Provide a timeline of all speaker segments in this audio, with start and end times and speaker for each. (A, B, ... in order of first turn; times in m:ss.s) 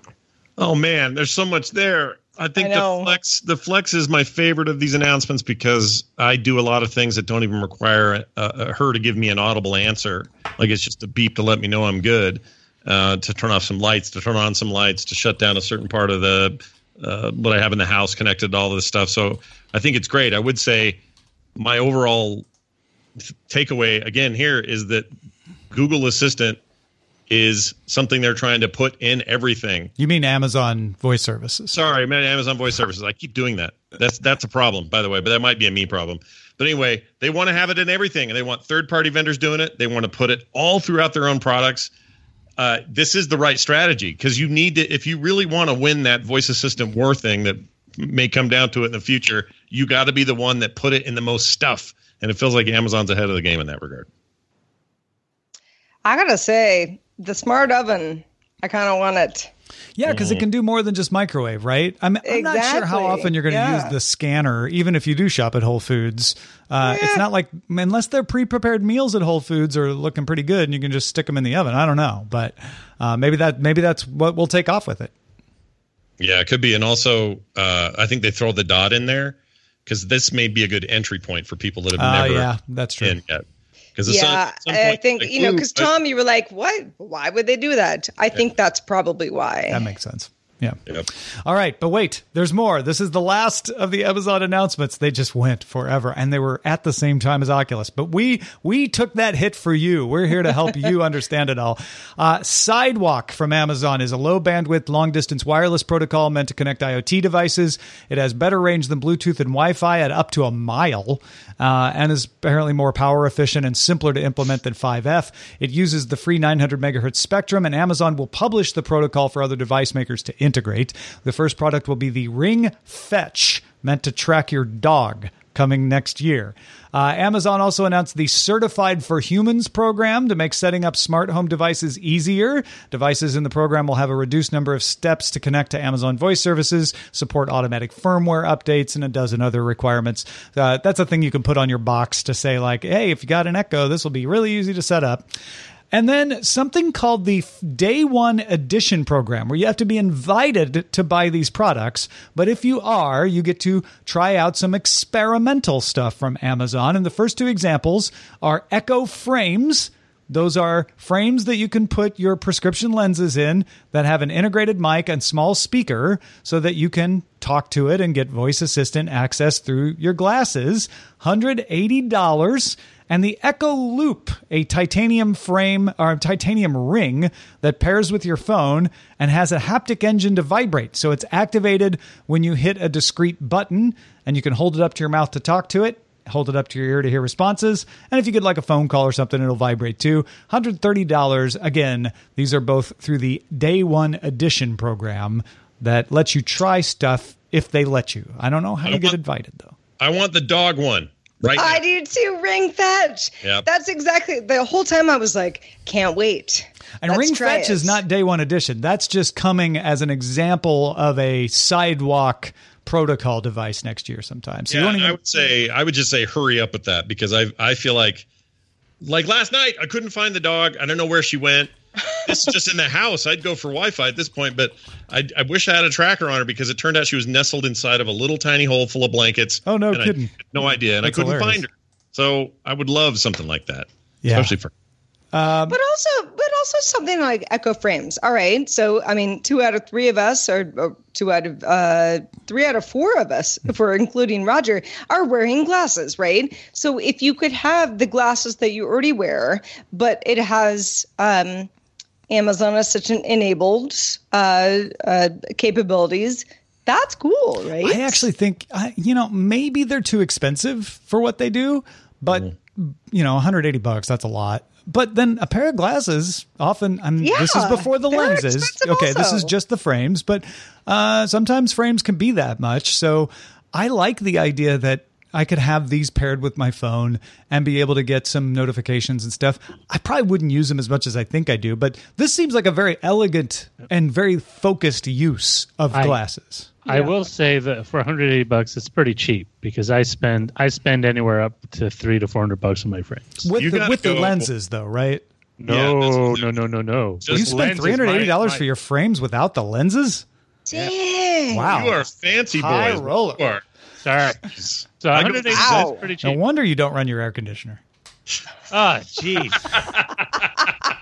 0:00.6-0:21.0 A
0:02.6-0:03.1 B
0:21.6-0:22.4 A
0:23.5-0:25.1 A
0:25.7-0:26.6 A
0:27.3-0:29.9 A
0:30.0-0:31.7 C
0:31.7-0:41.9 A
0:42.6-0:54.1 A
0:56.0-0:59.5 B
1:00.0-1:15.1 C
1:00.0-1:00.4 A
1:02.2-1:03.9 B
1:06.8-1:07.2 B
1:16.2-1:22.5 A
1:22.0-1:23.2 C
1:23.0-1:23.4 A
1:24.0-1:25.9 A
1:24.0-1:29.8 B
1:29.7-1:30.8 C
1:31.4-2:25.3 C
2:25.9-3:19.7 C
3:18.8-3:19.2 A
3:20.0-3:21.8 A
3:21.6-3:28.0 B
3:27.0-3:35.2 C
3:34.7-3:38.2 A
3:39.0-3:41.7 A
3:42.2-3:54.7 A
3:49.6-3:50.4 C
3:51.0-3:51.6 C
3:54.2-3:54.5 C
3:55.3-3:55.8 C
3:55.7-4:11.7 B
4:12.3-4:18.2 B
4:17.8-4:47.1 C
4:27.2-4:29.5 B
4:45.9-4:46.2 D
4:46.8-4:53.4 D
4:53.4-4:55.2 C
4:53.5-4:54.5 A
4:55.6-4:58.6 D
4:55.7-4:56.5 A
4:57.2-4:58.3 A
4:57.3-5:00.2 C
5:00.7-5:01.8 B
5:01.5-5:02.0 C
5:01.6-5:03.6 A
5:02.5-5:03.4 C
5:04.0-5:06.4 D
5:04.4-5:05.9 A
5:05.5-5:06.0 B
5:06.2-5:07.8 C
5:08.7-5:09.8 D